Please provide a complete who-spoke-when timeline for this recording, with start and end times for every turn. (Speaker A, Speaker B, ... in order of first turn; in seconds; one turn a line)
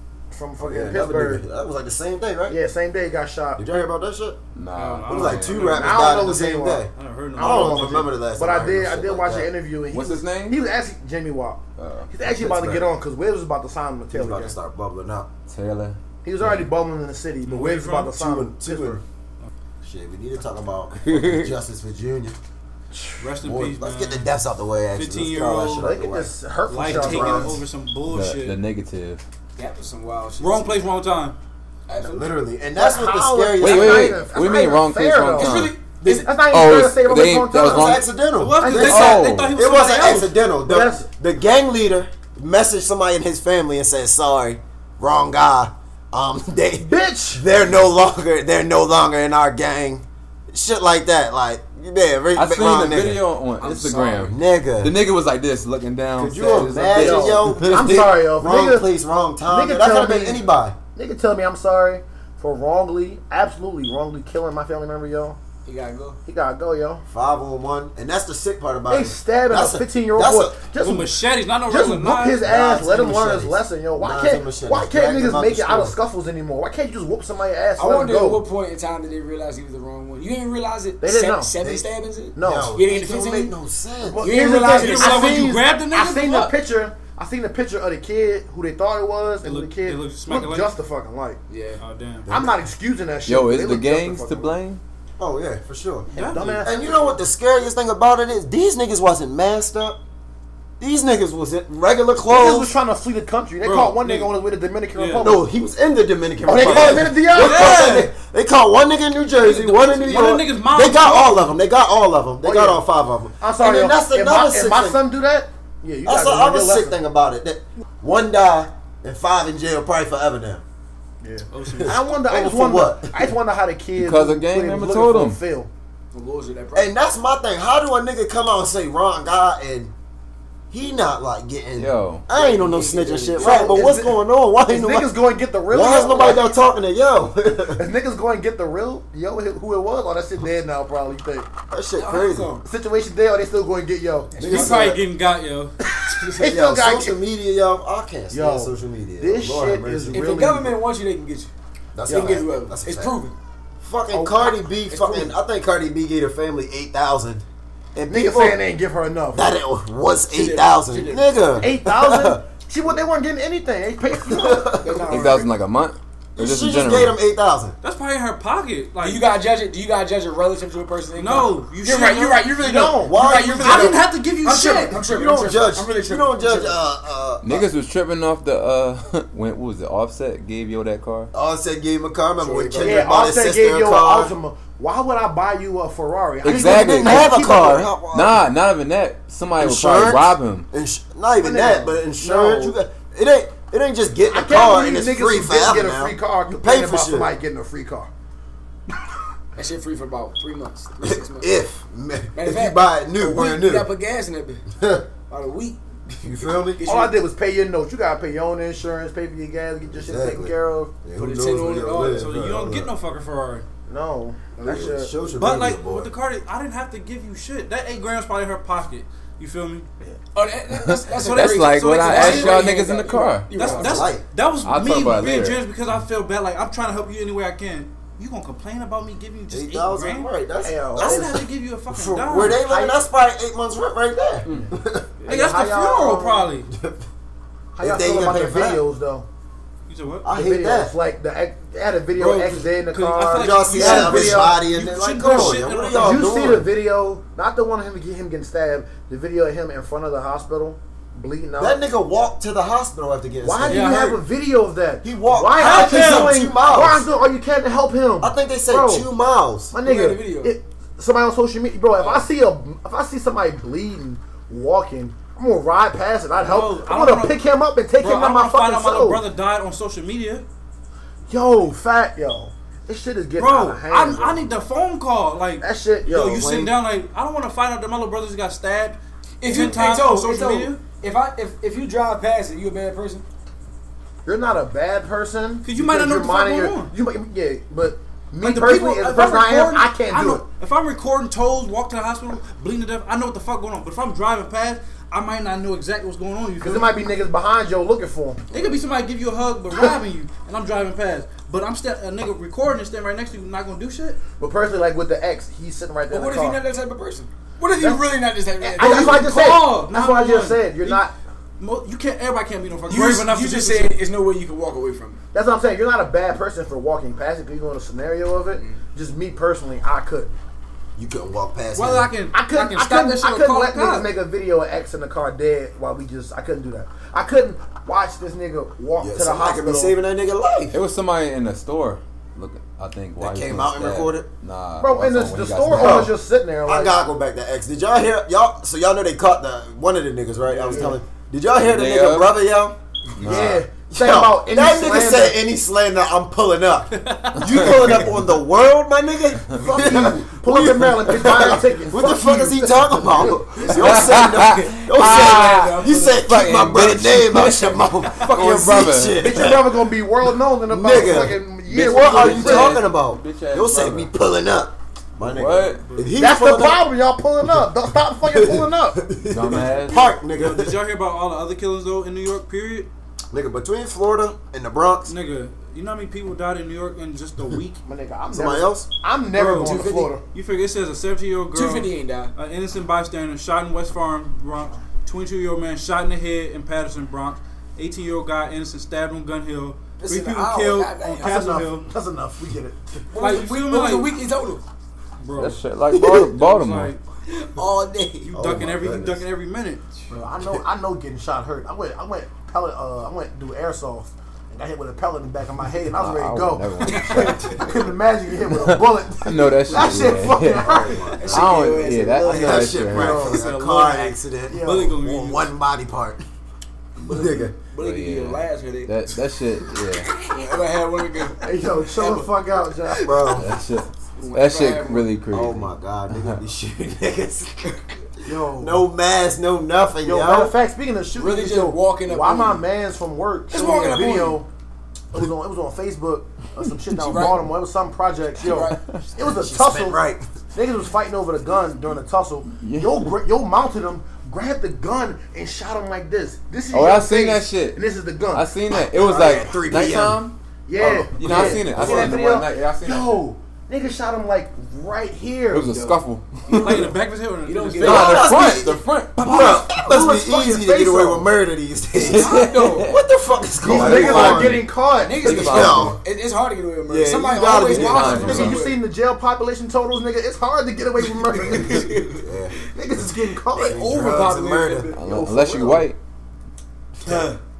Speaker A: 0.3-1.4
Speaker B: 0.6-2.6
Speaker A: 2.5-3.6
Speaker B: 3.6-4.4
Speaker C: 4.5-5.7
Speaker D: 4.8-6.3
Speaker B: 5.1-9.5
Speaker A: 5.6-14.6
Speaker D: 6.9-8.1
Speaker C: 9.9-10.6
Speaker C: 11.8-12.1
Speaker B: 12.3-12.9
Speaker B: 14.1-15.3
Speaker C: 15.5-16.7
Speaker A: 16.2-19.0
Speaker D: 17.4-18.1
Speaker B: 18.1-19.0
Speaker B: 19.8-22.4
Speaker C: 21.0-21.5
Speaker D: 23.2-24.3
Speaker B: 23.4-27.6
Speaker D: 24.9-25.9
Speaker A: 25.8-27.6
Speaker D: 26.7-28.6
Speaker C: 28.1-29.2
Speaker E: 29.6-30.8
Speaker D: 30.4-31.4
Speaker E: 31.9-32.4
Speaker B: 32.0-34.2
Speaker A: 32.8-38.0
Speaker C: 33.6-35.8
Speaker E: 35.3-36.3
Speaker C: 36.4-38.0
Speaker B: 37.6-53.2
Speaker D: 38.4-40.3
Speaker A: 38.5-39.2
Speaker C: 38.8-39.6
Speaker A: 40.6-41.0
Speaker A: 46.8-47.5
Speaker C: 52.3-58.0
Speaker E: 53.6-54.3
Speaker B: 54.2-55.0
Speaker B: 56.2-60.8
Speaker A: 56.9-58.9
Speaker A: 59.5-65.4
Speaker E: 65.7-66.2
Speaker A: 66.2-67.0
Speaker B: 67.1-70.6
Speaker A: 68.9-71.1
Speaker D: 70.8-72.5
Speaker A: 71.7-78.4
Speaker B: 72.4-76.0
Speaker E: 77.8-83.5
Speaker A: 81.0-81.5
Speaker B: 81.6-81.9
Speaker A: 82.3-82.8
Speaker B: 82.4-84.3
Speaker A: 84.0-91.4
Speaker E: 84.2-85.4
Speaker D: 84.6-86.5
Speaker D: 89.4-90.7
Speaker E: 91.5-91.8
Speaker D: 91.8-92.3
Speaker A: 92.3-94.6
Speaker C: 93.3-94.8
Speaker B: 95.2-100.0
Speaker D: 96.1-96.7
Speaker A: 96.2-97.1
Speaker B: 100.8-102.8
Speaker A: 102.2-105.5
Speaker D: 103.6-104.3
Speaker D: 104.9-105.3
Speaker B: 105.2-115.0
Speaker A: 106.5-108.0
Speaker D: 107.2-108.1
Speaker D: 109.4-111.5
Speaker A: 112.4-112.8
Speaker A: 113.4-117.0
Speaker B: 116.0-120.6
Speaker A: 121.2-125.7
Speaker D: 121.5-122.1
Speaker B: 121.8-123.3
Speaker C: 124.0-125.4
Speaker E: 126.1-126.9
Speaker B: 126.7-129.9
Speaker B: 130.7-135.1
Speaker C: 131.8-132.3
Speaker E: 132.3-134.0
Speaker A: 133.4-136.5
Speaker B: 135.7-137.8
Speaker A: 137.7-141.5
Speaker B: 141.7-142.5
Speaker E: 141.9-142.6
Speaker A: 142.6-144.8
Speaker E: 144.3-144.9
Speaker B: 144.4-145.0
Speaker D: 144.4-145.7
Speaker A: 146.0-147.2
Speaker B: 146.4-150.3
Speaker A: 148.3-150.8
Speaker E: 150.1-151.5
Speaker B: 151.9-153.2
Speaker E: 152.1-153.3
Speaker B: 153.8-157.4
Speaker A: 154.1-154.5
Speaker E: 154.9-155.3
Speaker B: 157.9-158.6
Speaker A: 158.1-159.5
Speaker B: 159.3-162.4
Speaker E: 160.3-161.5
Speaker A: 161.6-164.8
Speaker B: 164.2-165.2
Speaker E: 164.8-165.5
Speaker C: 165.1-167.2
Speaker B: 166.3-167.8
Speaker D: 167.8-169.3
Speaker E: 169.0-176.8
Speaker D: 171.2-172.8
Speaker A: 172.6-173.2
Speaker B: 173.0-174.1
Speaker D: 173.4-175.0
Speaker B: 174.9-177.7
Speaker C: 177.4-181.3
Speaker B: 181.3-184.3
Speaker E: 182.4-183.1
Speaker A: 182.8-187.9
Speaker C: 186.4-187.4
Speaker B: 186.4-188.4
Speaker C: 188.1-190.7
Speaker B: 189.6-197.3
Speaker A: 191.4-192.8
Speaker A: 194.3-198.1
Speaker E: 199.6-201.5
Speaker B: 201.0-203.9
Speaker E: 202.3-204.6
Speaker B: 204.8-205.1
Speaker E: 205.3-207.2
Speaker B: 206.2-206.8
Speaker A: 206.8-210.9
Speaker B: 209.9-212.9
Speaker E: 211.2-212.3
Speaker D: 212.0-213.7
Speaker A: 213.9-215.1
Speaker E: 214.6-214.9
Speaker B: 214.6-216.1
Speaker D: 215.3-219.9
Speaker E: 220.3-224.1
Speaker C: 220.7-223.8
Speaker D: 221.1-222.7
Speaker D: 223.5-230.3
Speaker B: 223.8-224.2
Speaker C: 224.6-225.6
Speaker B: 229.5-235.1
Speaker A: 230.6-231.4
Speaker D: 230.9-232.7
Speaker A: 232.4-233.0
Speaker A: 235.2-236.5
Speaker D: 235.2-236.7
Speaker B: 236.7-237.1
Speaker A: 237.7-239.2
Speaker B: 237.8-238.8
Speaker D: 239.9-240.3
Speaker B: 240.2-240.9
Speaker A: 240.3-244.6
Speaker E: 242.2-242.5
Speaker D: 242.8-246.3
Speaker B: 243.3-246.7
Speaker A: 245.3-251.8
Speaker B: 251.6-254.2
Speaker A: 253.4-259.1
Speaker D: 253.7-254.1
Speaker B: 255.0-257.1
Speaker D: 255.6-256.4
Speaker B: 258.2-259.7
Speaker A: 259.7-269.2
Speaker E: 259.8-260.5
Speaker D: 266.4-267.4
Speaker D: 268.0-270.4
Speaker A: 271.3-274.5
Speaker D: 273.4-280.8
Speaker A: 275.6-276.7
Speaker B: 276.4-276.7
Speaker E: 279.4-283.2
Speaker A: 284.2-290.4
Speaker D: 285.6-286.9
Speaker D: 288.4-296.9
Speaker A: 296.6-298.4
Speaker D: 298.5-304.2
Speaker A: 304.4-306.6
Speaker E: 306.1-309.5
Speaker A: 307.8-308.1
Speaker A: 308.6-311.1
Speaker D: 308.8-311.0
Speaker D: 311.6-314.0
Speaker E: 312.9-315.2
Speaker A: 315.3-320.3
Speaker E: 318.5-318.8
Speaker B: 321.0-322.1
Speaker D: 321.7-323.1
Speaker A: 322.3-330.0
Speaker E: 322.5-324.0
Speaker B: 329.0-330.8
Speaker C: 330.7-336.1
Speaker B: 333.2-334.3
Speaker A: 334.8-336.9
Speaker B: 335.7-336.1
Speaker B: 336.6-359.7
Speaker D: 340.5-340.9
Speaker A: 340.7-341.0
Speaker C: 341.6-342.3
Speaker C: 343.2-343.6
Speaker A: 343.2-345.4
Speaker D: 346.9-347.7
Speaker A: 349.6-354.0
Speaker E: 353.6-356.9
Speaker C: 353.7-359.3
Speaker A: 359.1-362.8
Speaker B: 360.7-366.8
Speaker C: 361.8-364.1
Speaker C: 365.2-365.9
Speaker D: 365.8-366.1
Speaker A: 366.1-369.0
Speaker B: 368.2-370.8
Speaker C: 369.3-370.1
Speaker D: 370.0-372.9
Speaker B: 373.3-375.1
Speaker D: 375.1-377.8
Speaker A: 377.9-380.2
Speaker B: 378.3-378.9
Speaker D: 379.3-391.9
Speaker E: 379.5-380.1
Speaker E: 381.5-382.3
Speaker E: 390.0-391.6
Speaker A: 391.2-393.0
Speaker E: 393.1-394.6
Speaker D: 393.1-394.1
Speaker D: 395.2-395.6
Speaker C: 395.3-396.9
Speaker E: 395.9-396.3
Speaker D: 396.3-397.0
Speaker E: 397.3-398.3
Speaker D: 398.2-399.8
Speaker B: 398.3-399.2
Speaker A: 400.1-411.2
Speaker C: 405.9-407.6
Speaker E: 406.8-407.7
Speaker C: 408.5-413.3
Speaker B: 410.0-416.2
Speaker E: 411.1-412.9
Speaker A: 412.9-413.4
Speaker D: 413.1-415.5
Speaker A: 414.5-415.0
Speaker E: 417.0-422.3
Speaker B: 417.0-417.6
Speaker C: 417.7-420.1
Speaker A: 421.4-423.4
Speaker B: 423.0-423.5
Speaker C: 423.4-426.4
Speaker E: 424.2-425.1
Speaker B: 425.3-428.0
Speaker A: 428.2-428.8
Speaker B: 428.5-430.5
Speaker A: 430.0-434.5
Speaker E: 431.1-432.6
Speaker E: 433.5-434.4
Speaker A: 435.1-440.0
Speaker E: 436.9-437.4
Speaker E: 438.4-438.8
Speaker B: 439.2-440.2
Speaker A: 440.5-448.5
Speaker C: 442.5-443.1
Speaker C: 446.7-450.3
Speaker B: 448.7-450.2
Speaker A: 450.7-455.9
Speaker B: 450.8-452.2
Speaker C: 451.1-453.2
Speaker C: 455.5-456.9
Speaker E: 456.4-458.5
Speaker D: 456.5-458.2
Speaker C: 457.8-459.3
Speaker B: 457.8-464.6
Speaker A: 459.2-461.3
Speaker C: 462.0-463.0
Speaker E: 462.0-462.9
Speaker A: 463.6-465.6
Speaker C: 463.6-466.0
Speaker E: 463.8-464.4
Speaker E: 464.9-468.8
Speaker B: 465.2-466.0
Speaker B: 466.9-468.6
Speaker C: 467.6-468.6
Speaker A: 468.1-472.0
Speaker E: 471.2-472.2
Speaker B: 471.6-472.6
Speaker A: 472.6-474.1
Speaker E: 473.5-475.7
Speaker B: 473.6-474.9
Speaker C: 474.9-476.0
Speaker A: 475.1-475.8
Speaker B: 477.0-477.3
Speaker E: 477.1-477.4